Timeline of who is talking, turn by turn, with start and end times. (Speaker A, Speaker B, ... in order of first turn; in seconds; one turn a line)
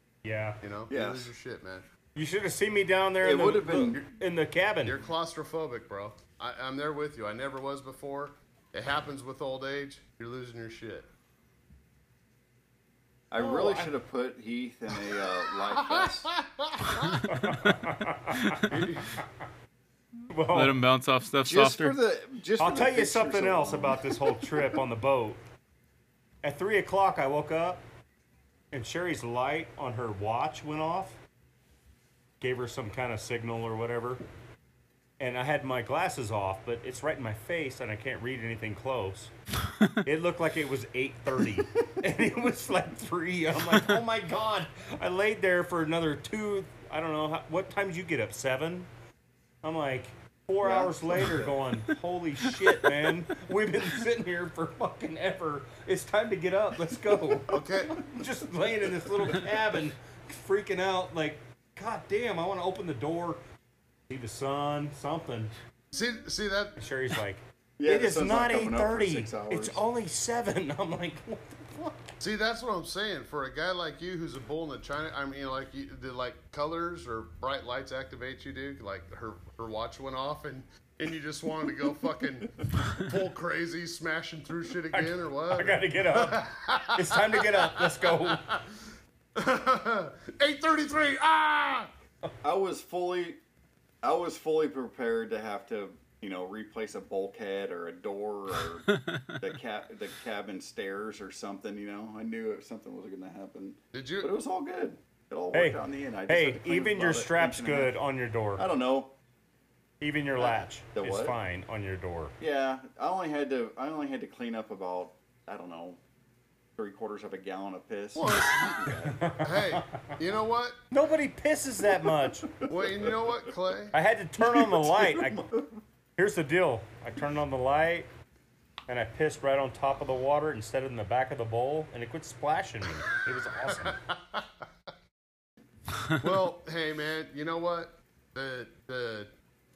Speaker A: 0.2-0.6
Speaker B: 0.6-1.9
Speaker C: 0.9-1.3
Speaker A: 2.1-5.0
Speaker C: 3.2-4.0
Speaker B: 4.8-11.1
Speaker C: 13.3-16.3
Speaker A: 13.4-13.9
Speaker B: 15.7-17.2
Speaker D: 17.1-17.8
Speaker A: 17.2-18.6
Speaker D: 18.3-18.8
Speaker B: 18.7-19.2
Speaker A: 20.3-20.8
Speaker D: 20.5-22.0
Speaker C: 21.4-24.7
Speaker A: 22.6-25.4
Speaker A: 26.4-27.8
Speaker A: 28.7-31.2
Speaker A: 32.4-34.2
Speaker A: 35.2-39.3
Speaker A: 40.0-48.9
Speaker A: 49.6-63.4
Speaker C: 50.6-51.5
Speaker B: 57.5-58.0
Speaker A: 64.1-65.5
Speaker B: 65.9-66.8
Speaker A: 66.8-72.2
Speaker C: 67.8-69.8
Speaker B: 72.2-88.8
Speaker A: 84.9-88.5
Speaker B: 89.3-91.9
Speaker C: 92.4-93.4
Speaker C: 94.0-107.9
Speaker D: 99.0-99.3
Speaker B: 103.9-104.3
Speaker A: 105.5-108.6
Speaker C: 108.6-109.1
Speaker A: 110.0-112.3
Speaker C: 110.4-111.3
Speaker C: 112.4-116.0
Speaker C: 116.8-119.3
Speaker B: 118.1-120.8
Speaker A: 119.2-120.2
Speaker A: 120.9-122.5
Speaker C: 122.4-123.5
Speaker B: 122.7-124.0
Speaker A: 123.9-125.4
Speaker C: 124.4-125.8
Speaker A: 126.2-128.1
Speaker A: 128.9-134.0
Speaker B: 133.7-134.6
Speaker B: 136.2-139.3